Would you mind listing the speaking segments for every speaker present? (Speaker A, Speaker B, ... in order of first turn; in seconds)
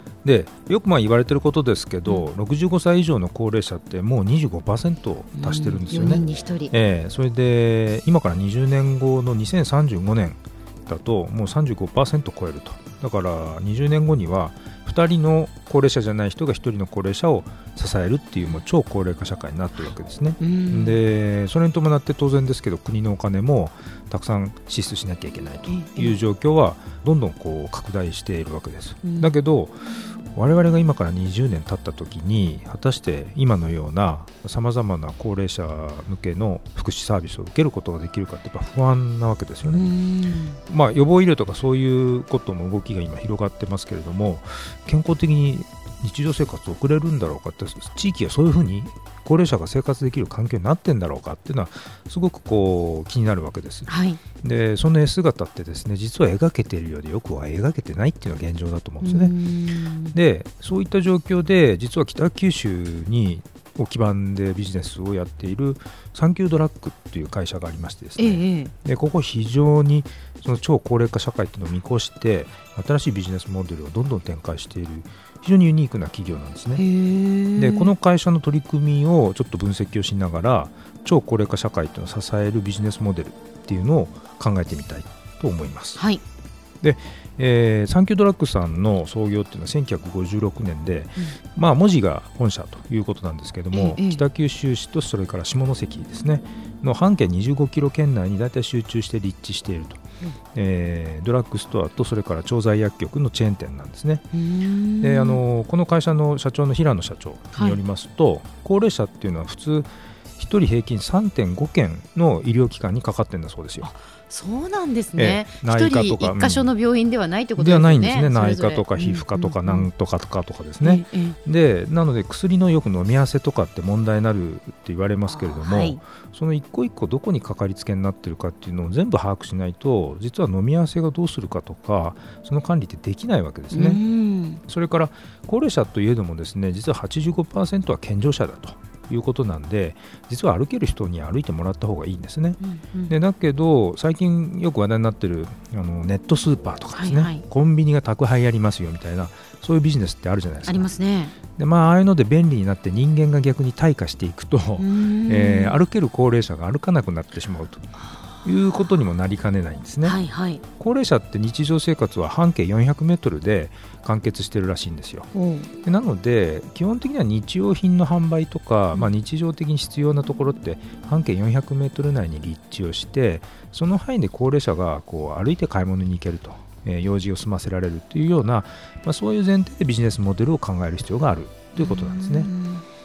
Speaker A: 0.2-39.9, 40.7-53.9, 54.4-59.3, 60.1-76.8, 77.6-86.0, 86.8-100.0, 100.5-104.2, 105.0-113.9, 115.2-116.7, 117.6-134.0, 134.7-150.9, 151.6-157.9, 158.4-160.2, 160.8-165.3, 165.8-182.5
Speaker B: 5.4-6.7, 20.4-21.0, 25.7-26.2, 29.0-29.3, 39.7-40.6, 53.9-54.2, 59.0-60.1, 68.2-68.7, 76.8-77.9, 86.0-86.2, 93.7-94.2, 104.3-105.4, 113.8-119.9, 120.8-121.4, 125.3-126.0, 133.7-134.6, 142.6-143.2, 146.9-147.4, 150.7-151.3, 154.8-155.8, 160.0-160.6, 165.3-165.7, 181.8-182.8